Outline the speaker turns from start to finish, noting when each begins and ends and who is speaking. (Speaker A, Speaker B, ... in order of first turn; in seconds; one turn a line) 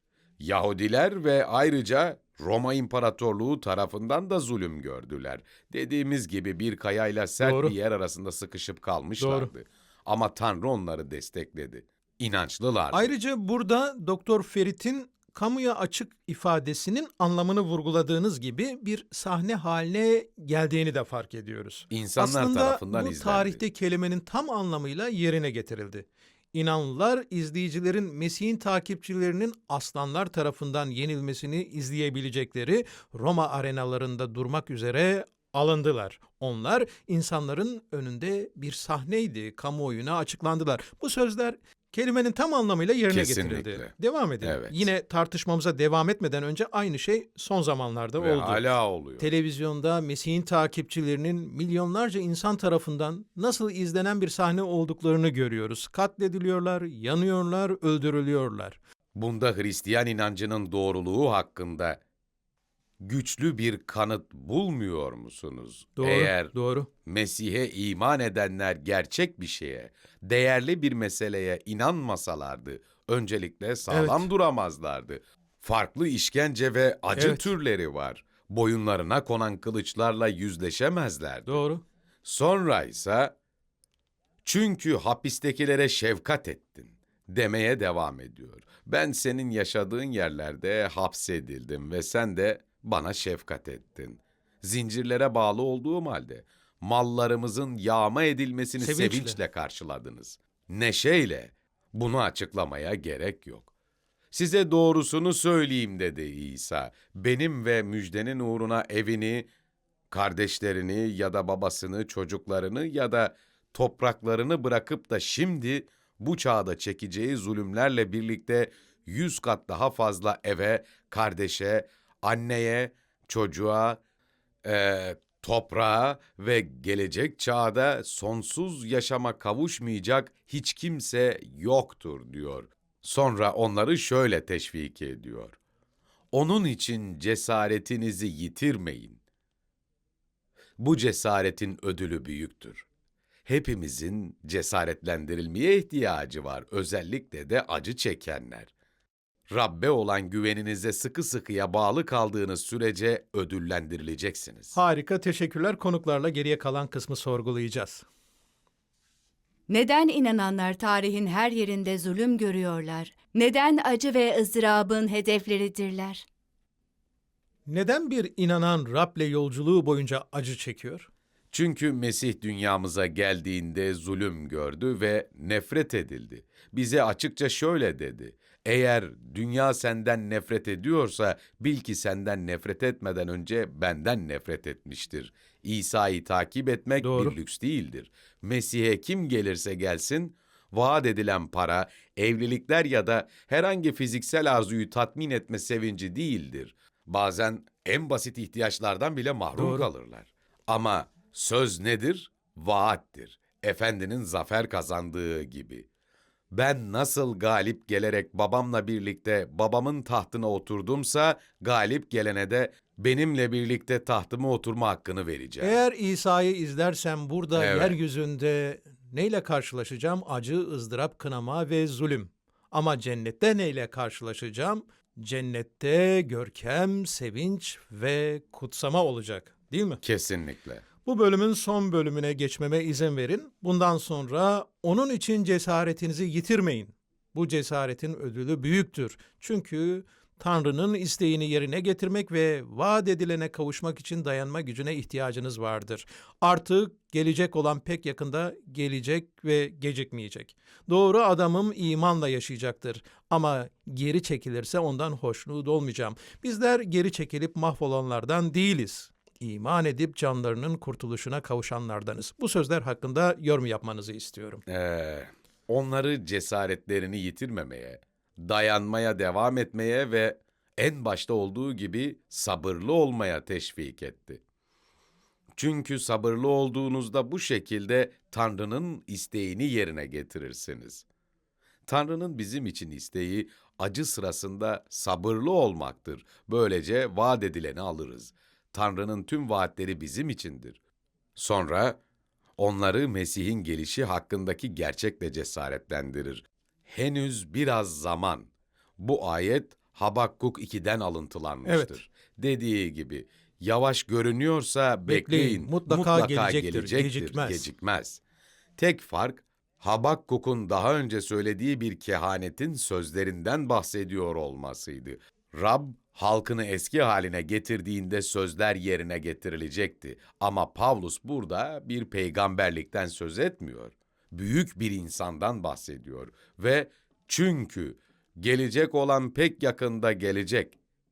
Speaker A: 0.4-13.1
Speaker B: 7.4-7.7
Speaker B: 9.2-9.5
Speaker B: 12.9-48.6
Speaker A: 21.9-23.6
Speaker A: 43.1-44.8
Speaker A: 48.2-49.3
Speaker B: 49.2-58.8
Speaker A: 59.1-62.0
Speaker A: 63.0-81.6
Speaker B: 66.0-66.9
Speaker B: 73.9-74.3
Speaker B: 77.2-77.5
Speaker B: 81.5-81.8
Speaker A: 82.2-83.3
Speaker A: 84.4-103.7
Speaker B: 98.8-99.4
Speaker A: 104.3-109.5
Speaker A: 110.1-124.0
Speaker A: 124.7-135.6
Speaker A: 136.3-139.2
Speaker A: 140.8-142.9
Speaker A: 143.5-148.7
Speaker A: 149.5-154.8
Speaker B: 154.7-158.1
Speaker C: 159.7-166.2
Speaker B: 167.7-171.1
Speaker A: 171.5-205.9
Speaker B: 187.0-187.3
Speaker B: 199.6-199.9
Speaker A: 206.5-215.8
Speaker B: 215.6-230.0
Speaker A: 217.6-218.0
Speaker A: 230.0-230.8
Speaker B: 231.1-264.6
Speaker A: 264.7-274.4
Speaker A: 275.6-281.0
Speaker A: 281.9-290.8
Speaker A: 291.4-292.0
Speaker A: 292.6-308.2
Speaker B: 301.7-302.0
Speaker B: 305.1-307.7
Speaker A: 308.8-330.8